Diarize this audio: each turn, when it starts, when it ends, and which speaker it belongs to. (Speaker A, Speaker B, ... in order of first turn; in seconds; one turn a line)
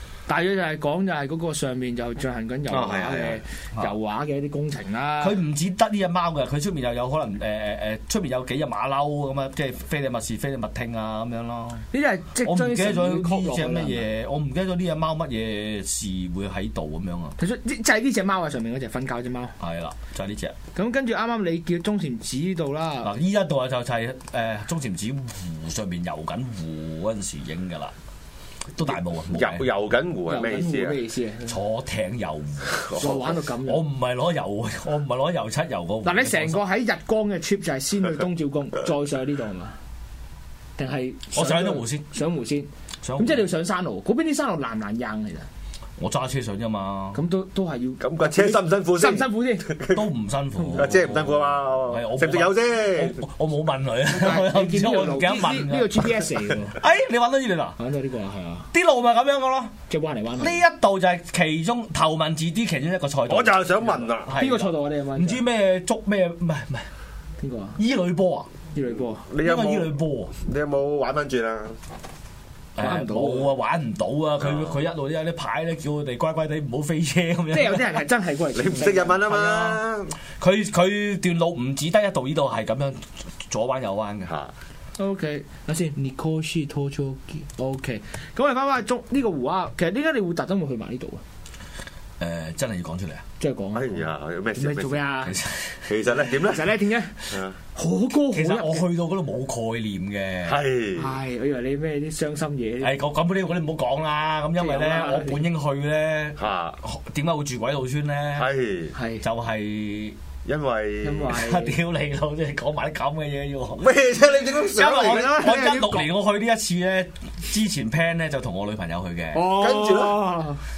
Speaker A: 0.3-5.4
Speaker B: 2.7-3.9
Speaker C: 2.7-3.2
Speaker B: 5.2-11.9
Speaker A: 11.9-14.1
Speaker B: 12.4-17.4
Speaker A: 17.4-19.5
Speaker B: 19.6-20.5
Speaker A: 20.7-23.1
Speaker B: 23.0-27.9
Speaker B: 28.7-29.7
Speaker C: 29.3-31.0
Speaker A: 30.3-31.6
Speaker B: 31.5-36.6
Speaker C: 32.8-33.2
Speaker A: 33.0-33.8
Speaker A: 36.0-39.8
Speaker A: 40.8-45.5
Speaker B: 41.3-42.0
Speaker B: 43.0-43.5
Speaker B: 46.0-47.2
Speaker A: 47.1-49.7
Speaker C: 48.0-50.0
Speaker B: 49.9-56.2
Speaker A: 50.6-50.9
Speaker C: 50.7-53.2
Speaker A: 54.1-56.8
Speaker B: 56.7-57.8
Speaker A: 57.8-58.7
Speaker B: 58.7-59.7
Speaker A: 59.9-60.6
Speaker B: 60.4-66.9
Speaker C: 63.3-64.3
Speaker A: 64.3-65.4
Speaker A: 67.4-67.8
Speaker B: 67.8-68.5
Speaker A: 68.7-69.2
Speaker C: 69.2-71.8
Speaker B: 69.4-70.3
Speaker B: 72.8-78.0
Speaker A: 72.8-73.5
Speaker C: 74.4-74.8
Speaker A: 77.5-79.7
Speaker C: 78.5-80.1
Speaker B: 80.4-84.3
Speaker C: 84.3-84.5
Speaker A: 85.0-91.2
Speaker B: 92.2-93.2
Speaker A: 93.4-94.0
Speaker C: 93.7-95.0
Speaker A: 94.5-95.3
Speaker B: 95.2-95.9
Speaker C: 95.9-96.7
Speaker A: 96.2-97.2
Speaker C: 97.3-97.5
Speaker A: 97.7-98.8
Speaker B: 98.3-100.6
Speaker C: 100.4-101.1
Speaker A: 101.0-102.9
Speaker B: 102.8-108.5
Speaker A: 104.6-105.4
Speaker C: 106.4-106.8
Speaker C: 108.3-108.9
Speaker A: 108.9-109.2
Speaker B: 109.2-110.2
Speaker C: 110.4-111.4
Speaker A: 111.0-111.8
Speaker B: 111.3-113.9
Speaker C: 113.8-115.5
Speaker B: 114.7-119.5
Speaker A: 114.8-116.1
Speaker A: 119.3-120.6
Speaker C: 119.4-120.2